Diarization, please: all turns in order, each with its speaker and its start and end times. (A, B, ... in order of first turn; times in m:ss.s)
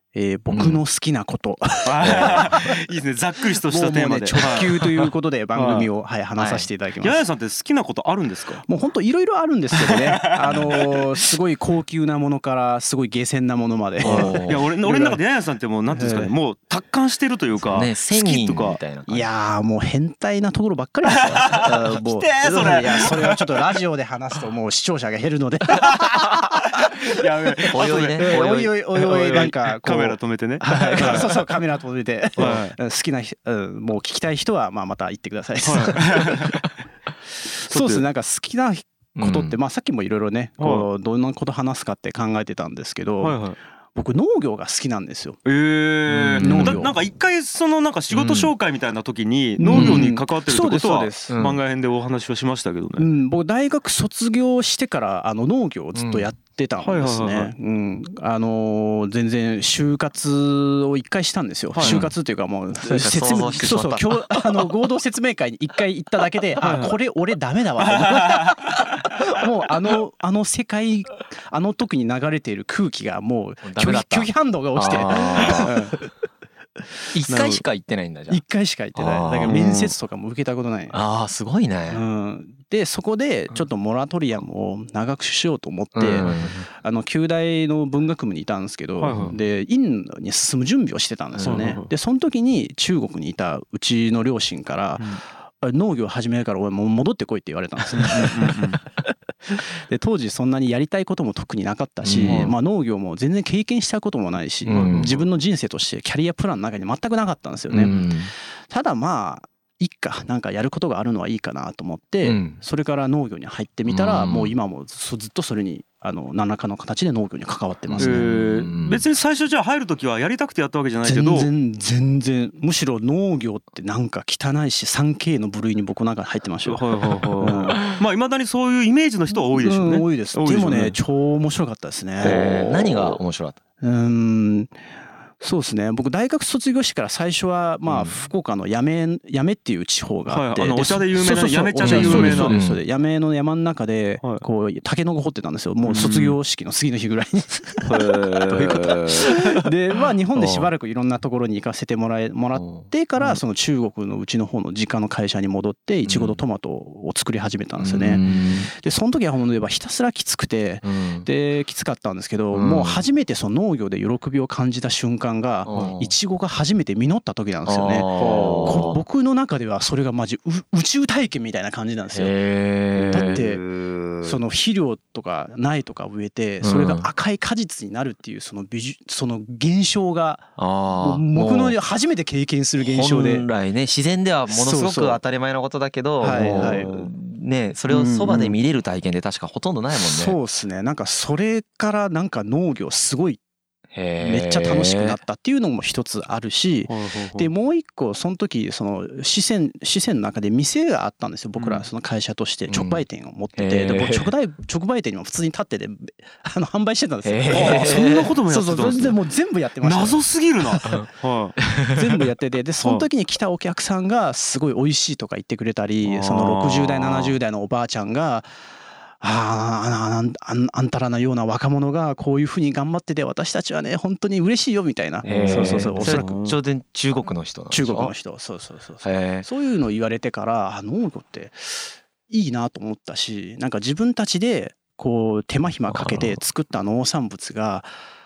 0:00.1-0:02.7 A
0:00.5-0:00.8 B
0:01.8-0:05.9 C
0:02.0-0:02.7 B
0:03.6-0:07.2 A
0:06.4-0:06.7 B
0:07.0-0:08.6 C
0:08.6-0:15.2 A
0:09.8-0:11.0 C
0:14.0-0:14.6 B
0:14.0-0:18.8 C
0:15.9-0:16.3 A
0:17.7-0:19.3 B
0:19.0-0:27.5 A
0:21.1-0:23.6 C
0:25.7-0:31.4 C
0:27.7-0:28.7 B
0:28.2-0:36.4 A
0:30.9-0:31.2 B
0:32.4-0:32.8 C
0:35.6-0:36.6 C
0:37.6-0:38.0 C
0:37.6-0:43.4 A
0:39.2-0:39.6 B
0:40.6-0:40.8 C
0:43.2-0:43.6 C
0:43.9-0:45.4 A
0:45.4-0:53.1 C
0:46.1-0:46.8 B
0:46.4-0:47.0 A
0:48.1-0:48.5 B
0:49.6-0:51.3 A
0:49.7-0:50.1 B
0:51.3-0:51.6 B
0:53.0-1:16.1 A
0:55.9-0:56.3 B
0:56.8-0:57.5 C
1:01.7-1:02.0 C
1:01.8-1:02.2 B
1:02.7-1:04.6 B
1:06.6-1:06.9 C
1:07.9-1:08.6 C
1:13.6-1:15.7 B
1:15.5-1:15.9 C
1:17.1-1:18.4 B
1:17.3-1:17.6 C
1:18.3-1:21.0 A
1:19.0-1:19.6 B
1:19.4-1:19.9 C
1:20.9-1:22.0 B
1:21.9-1:48.0 A
1:25.9-1:26.7 B
1:26.2-1:26.5 C
1:29.0-1:29.3 C
1:29.1-1:29.4 B
1:31.3-1:31.8 B
1:31.4-1:31.9 C
1:37.9-1:38.8 C
1:42.0-1:42.5 B
1:42.2-1:42.5 C
1:44.6-1:45.1 B
1:44.7-1:45.3 C
1:47.7-1:48.3 B
1:48.7-1:58.3 A
1:52.2-1:52.6 B
1:53.8-1:54.5 B
1:57.9-1:59.0 B
1:58.0-2:01.5 C
2:01.0-2:07.9 A
2:06.6-2:11.0 C
2:09.5-2:13.2 A
2:12.2-2:13.1 C
2:12.2-2:13.6 B
2:13.8-2:14.8 A
2:15.4-2:52.4 A
2:17.8-2:18.3 B
2:20.3-2:22.6 C
2:21.8-2:22.8 B
2:25.8-2:26.4 C
2:26.0-2:26.2 B
2:27.8-2:29.3 C
2:30.3-2:30.7 B
2:32.5-2:32.9 B
2:36.0-2:36.4 B
2:37.8-2:38.7 B
2:40.8-2:41.3 B
2:42.5-2:43.0 B
2:45.6-2:46.1 B
2:47.6-2:49.0 B
2:48.2-2:48.9 C
2:52.1-2:53.5 B
2:53.0-2:53.4 C
2:53.1-2:53.7 A
2:54.2-3:03.5 A
2:56.6-2:57.1 B
3:00.6-3:01.8 B
3:02.8-3:10.4 B
3:04.5-3:05.2 A
3:06.2-3:07.0 A
3:06.3-3:07.1 C
3:08.1-3:08.6 A
3:09.9-3:13.4 A
3:13.9-3:15.2 B
3:14.2-3:30.2 A
3:16.9-3:17.5 C
3:21.6-3:21.8 C
3:22.7-3:23.0 B
3:23.6-3:24.3 B
3:27.2-3:28.4 B
3:27.5-3:29.2 C
3:29.8-3:31.6 C
3:31.6-3:31.9 B
3:31.8-3:38.5 A
3:32.8-3:33.1 C
3:36.0-3:37.4 C
3:39.2-3:46.3 A
3:45.2-3:46.5 C
3:45.2-3:48.1 B
3:47.7-3:57.9 A
3:49.0-3:49.5 B
3:55.9-3:56.4 B